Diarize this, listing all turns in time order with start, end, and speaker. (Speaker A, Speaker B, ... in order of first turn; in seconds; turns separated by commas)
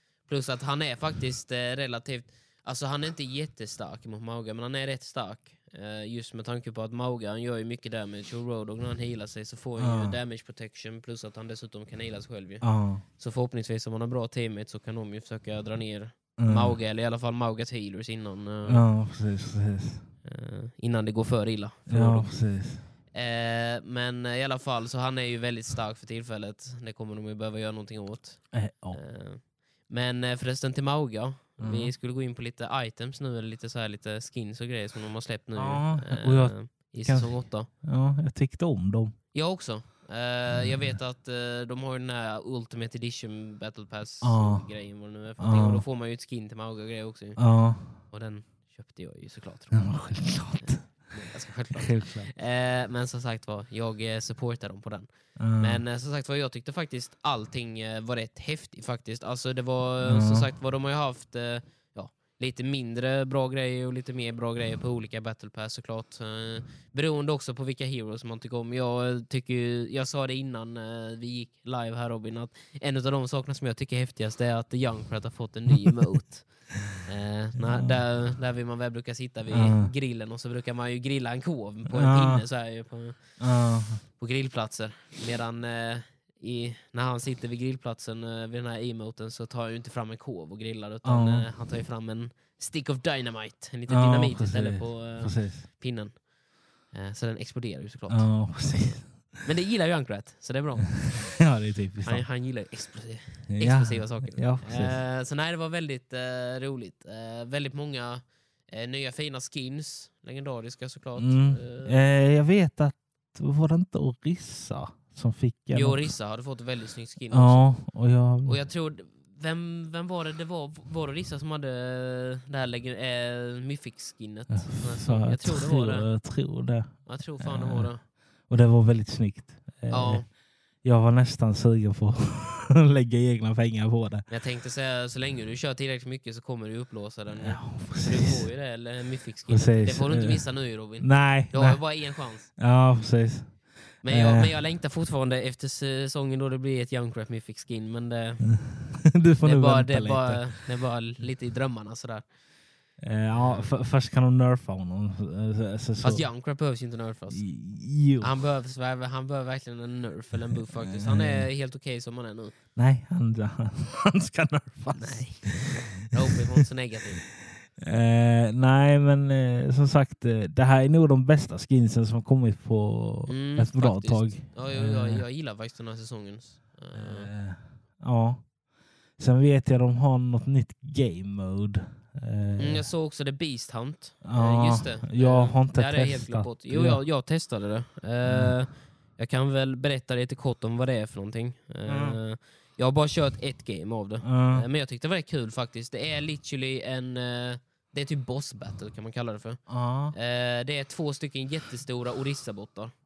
Speaker A: 0.2-18.9, Speaker B: 9.8-10.2, Speaker B: 12.6-13.0, Speaker B: 16.4-16.8, Speaker B: 18.7-20.0, Speaker A: 20.2-22.3, Speaker B: 21.9-22.8, Speaker A: 23.1-37.7, Speaker B: 28.5-29.0, Speaker B: 31.6-31.9, Speaker B: 35.6-39.1, Speaker A: 39.3-47.4, Speaker B: 44.2-44.7, Speaker B: 45.4-45.8, Speaker B: 47.4-48.0, Speaker A: 48.0-49.8, Speaker B: 49.7-50.9, Speaker A: 50.6-83.4, Speaker B: 51.7-52.3, Speaker B: 55.4-55.8, Speaker B: 60.0-60.5, Speaker B: 77.6-77.9, Speaker B: 79.5-79.9, Speaker B: 81.9-82.4, Speaker B: 83.4-84.0, Speaker A: 84.1-96.3, Speaker B: 91.0-91.5, Speaker B: 93.9-95.7, Speaker A: 96.9-101.4, Speaker B: 98.1-99.4, Speaker B: 101.0-102.2, Speaker A: 102.0-112.0, Speaker B: 103.5-105.0, Speaker B: 111.2-116.1, Speaker A: 115.7-117.7, Speaker B: 117.3-118.6, Speaker A: 118.4-126.1, Speaker B: 124.5-130.3, Speaker A: 127.0-128.0, Speaker A: 129.9-130.2, Speaker B: 130.8-134.2, Speaker A: 134.3-142.5, Speaker B: 137.3-138.4, Speaker B: 139.5-144.5, Speaker A: 144.0-148.6, Speaker B: 148.5-150.6, Speaker A: 149.4-152.3, Speaker B: 153.0-156.3, Speaker A: 153.3-153.7, Speaker A: 156.0-157.5, Speaker B: 157.3-158.3, Speaker A: 158.2-162.5, Speaker B: 160.8-161.5, Speaker B: 162.8-165.8, Speaker A: 164.9-167.3, Speaker B: 167.8-175.2, Speaker A: 173.3-177.3, Speaker B: 176.9-178.5, Speaker B: 179.2-182.8, Speaker A: 182.6-202.9, Speaker B: 184.2-187.0, Speaker B: 188.2-188.5, Speaker B: 191.9-192.2, Speaker B: 194.2-194.6, Speaker B: 199.7-200.1